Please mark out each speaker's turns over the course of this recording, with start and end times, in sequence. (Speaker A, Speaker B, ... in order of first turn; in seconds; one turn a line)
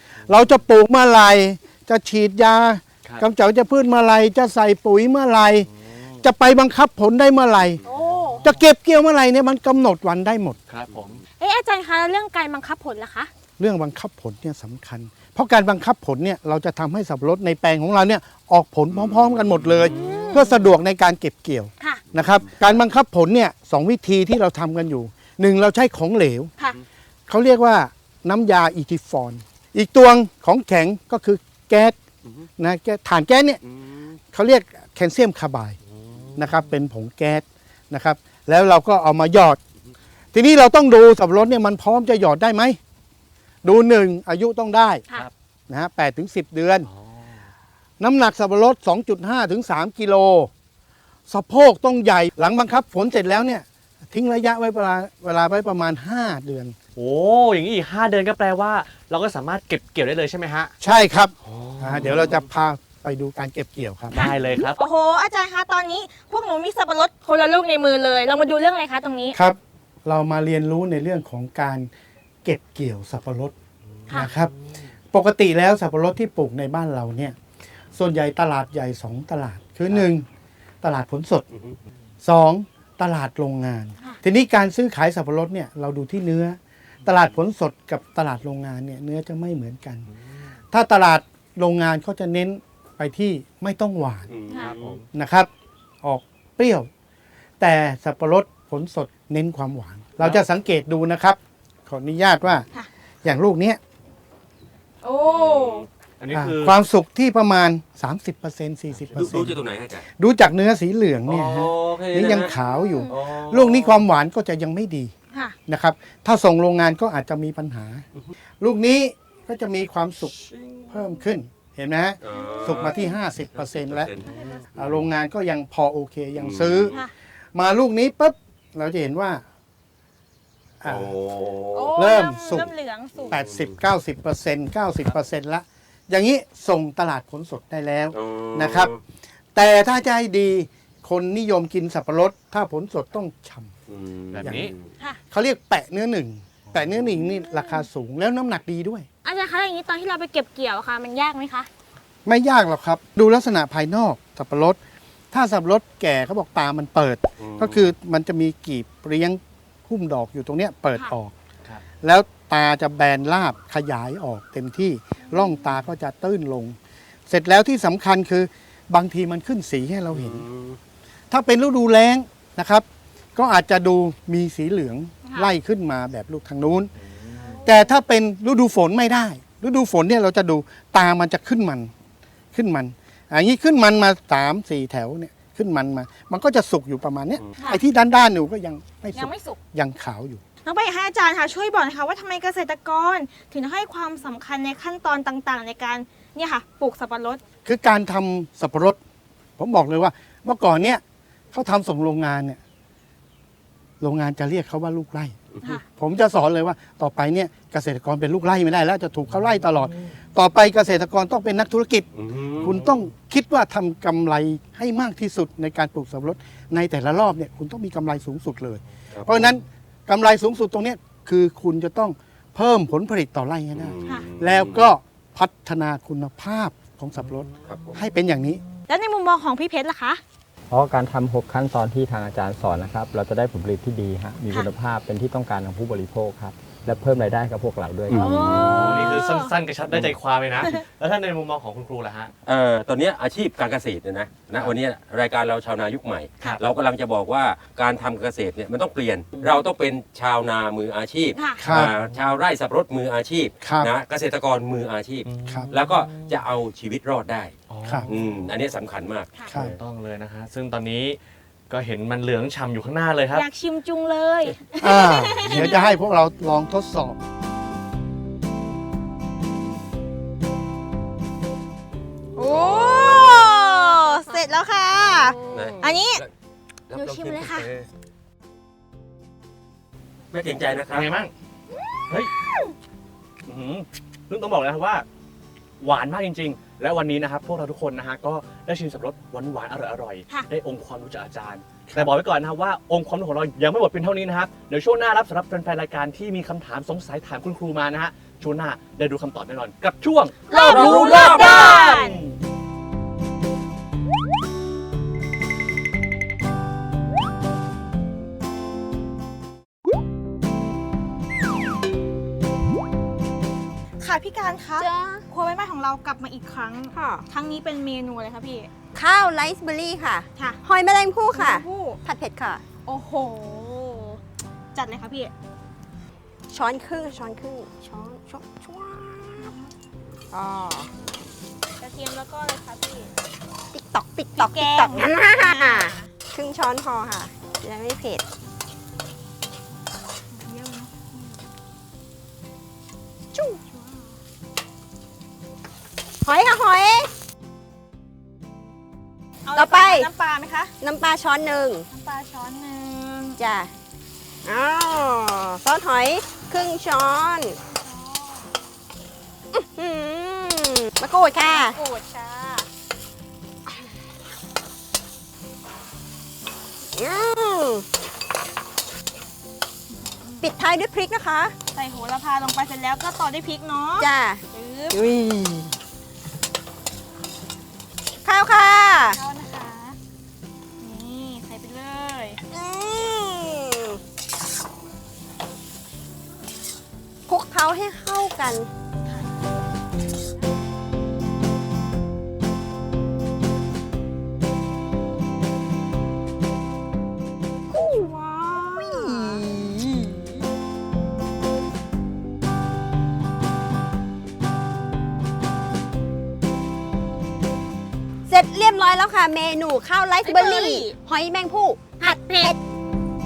Speaker A: 0.3-5.7
Speaker B: 5.9-6.2
Speaker A: 6.2-7.8
Speaker C: 7.9-8.4
Speaker B: 8.0-8.5
Speaker A: 8.4-10.6
Speaker B: 10.7-11.2
Speaker C: 11.4-13.3
Speaker A: 13.6-26.5
Speaker D: 19.0-19.5
Speaker B: 19.8-20.4
Speaker C: 19.9-20.5
Speaker A: 27.3-32.0
Speaker A: 32.6-33.6
Speaker A: 34.3-35.8
Speaker A: 36.4-39.6
Speaker A: 40.3-42.8
Speaker A: 43.6-45.0
Speaker A: 45.7-46.9
Speaker B: 46.9-47.5
Speaker A: 48.0-50.5
Speaker A: 51.3-56.8
Speaker B: 57.0-60.7
Speaker A: 60.8-64.2
Speaker B: 61.4-62.3
Speaker B: 64.1-64.8
Speaker C: 64.2-69.4
Speaker A: 69.3-71.9
Speaker A: 72.5-73.5
Speaker A: 74.1-74.5
Speaker A: 75.1-77.4
Speaker A: 78.0-80.2
Speaker A: 80.8-81.5
Speaker A: 82.2-90.1
Speaker A: 90.7-94.3
Speaker D: 94.3-95.0
Speaker C: 94.5-94.7
Speaker B: 94.6-95.0
Speaker A: 95.1-95.5
Speaker A: 96.0-96.9
Speaker A: 97.6-102.7
Speaker A: 103.2-103.8
Speaker C: 105.0-105.9
Speaker D: 105.3-105.9
Speaker B: 106.2-106.8
Speaker A: 106.3-109.6
Speaker B: 109.2-109.4
Speaker D: 109.2-110.0
Speaker A: 110.2-115.1
Speaker D: 111.3-112.5
Speaker C: 112.5-113.1
Speaker D: 113.1-114.0
Speaker A: 115.7-118.0
Speaker A: 118.6-120.3
Speaker D: 120.4-120.9
Speaker A: 120.9-124.1
Speaker D: 122.2-124.8
Speaker C: 122.4-123.1
Speaker C: 124.3-124.6
Speaker A: 124.8-126.9
Speaker D: 126.4-127.0
Speaker A: 127.5-129.4
Speaker A: 130.8-131.1
Speaker D: 130.8-131.9
Speaker C: 131.7-133.4
Speaker A: 131.9-132.7
Speaker D: 133.2-133.6
Speaker A: 133.3-138.9
Speaker D: 138.1-139.0
Speaker A: 139.6-143.7
Speaker D: 143.9-144.8
Speaker B: 144.3-144.7
Speaker A: 144.4-144.7
Speaker A: 145.3-149.1
Speaker C: 147.3-147.8
Speaker C: 149.2-151.7
Speaker A: 152.3-154.8
Speaker A: 155.3-161.3
Speaker D: 157.4-157.9
Speaker A: 162.0-166.8
Speaker C: 165.3-165.6
Speaker A: 167.3-170.4
Speaker D: 170.1-170.8
Speaker A: 171.3-172.8
Speaker A: 173.4-176.9
Speaker C: 175.2-175.5
Speaker B: 177.0-177.5
Speaker C: 177.4-177.8
Speaker A: 177.7-181.9
Speaker A: 182.5-190.4
Speaker C: 189.1-189.6
Speaker C: 190.7-197.4
Speaker A: 197.7-199.0
Speaker A: 199.6-201.0
Speaker A: 201.5-202.6
Speaker A: 204.0-205.4
Speaker A: 205.9-212.1
Speaker D: 212.2-212.8
Speaker A: 212.6-228.6
Speaker D: 219.2-219.4
Speaker D: 223.8-224.8
Speaker C: 228.9-230.2
Speaker E: 230.7-238.4
Speaker D: 238.1-239.2
Speaker C: 238.1-239.5
Speaker B: 238.4-242.3
Speaker D: 242.5-257.5
Speaker C: 251.4-251.7
Speaker A: 251.6-251.9
Speaker B: 251.7-252.1
Speaker A: 253.6-253.9
Speaker B: 255.3-256.4
Speaker A: 255.5-255.7
Speaker B: 257.7-258.5
Speaker D: 258.1-259.6
Speaker A: 259.5-259.8
Speaker B: 259.6-261.2
Speaker B: 261.7-263.5
Speaker C: 263.3-266.0
Speaker A: 264.8-267.2
Speaker F: 272.4-275.8
Speaker C: 272.4-276.2
Speaker D: 275.5-276.3
Speaker D: 276.9-277.9
Speaker C: 276.9-277.7
Speaker D: 280.3-281.1
Speaker B: 280.9-281.3
Speaker B: 283.5-285.1
Speaker B: 285.8-302.3
Speaker C: 300.5-302.2
Speaker D: 300.5-301.8
Speaker C: 314.0-318.7
Speaker F: 314.8-315.2
Speaker F: 316.9-317.3
Speaker F: 318.9-322.6
Speaker C: 321.3-322.0
Speaker C: 322.9-324.2
Speaker C: 324.7-325.3
Speaker F: 326.5-329.5
Speaker C: 329.4-329.7
Speaker F: 330.3-330.9
Speaker C: 331.8-333.1
Speaker F: 333.7-338.2
Speaker C: 334.4-336.1
Speaker C: 340.3-341.4
Speaker F: 343.4-343.6
Speaker C: 343.5-344.2
Speaker F: 346.2-347.1
Speaker C: 349.5-350.7
Speaker F: 349.6-350.1
Speaker F: 350.8-351.9
Speaker C: 351.9-353.4
Speaker F: 353.4-353.7
Speaker F: 354.4-357.6
Speaker C: 357.6-358.5
Speaker F: 359.5-361.8
Speaker C: 361.5-362.7
Speaker F: 366.9-367.9
Speaker C: 370.1-370.5
Speaker F: 370.4-371.6
Speaker C: 371.7-375.0
Speaker F: 374.0-375.7
Speaker F: 378.2-379.2
Speaker C: 379.1-380.0
Speaker C: 380.8-382.4
Speaker F: 382.5-384.0
Speaker F: 387.3-388.7
Speaker F: 397.7-400.1
Speaker C: 398.8-399.4
Speaker F: 408.3-412.6
Speaker C: 410.2-411.0
Speaker C: 412.0-412.5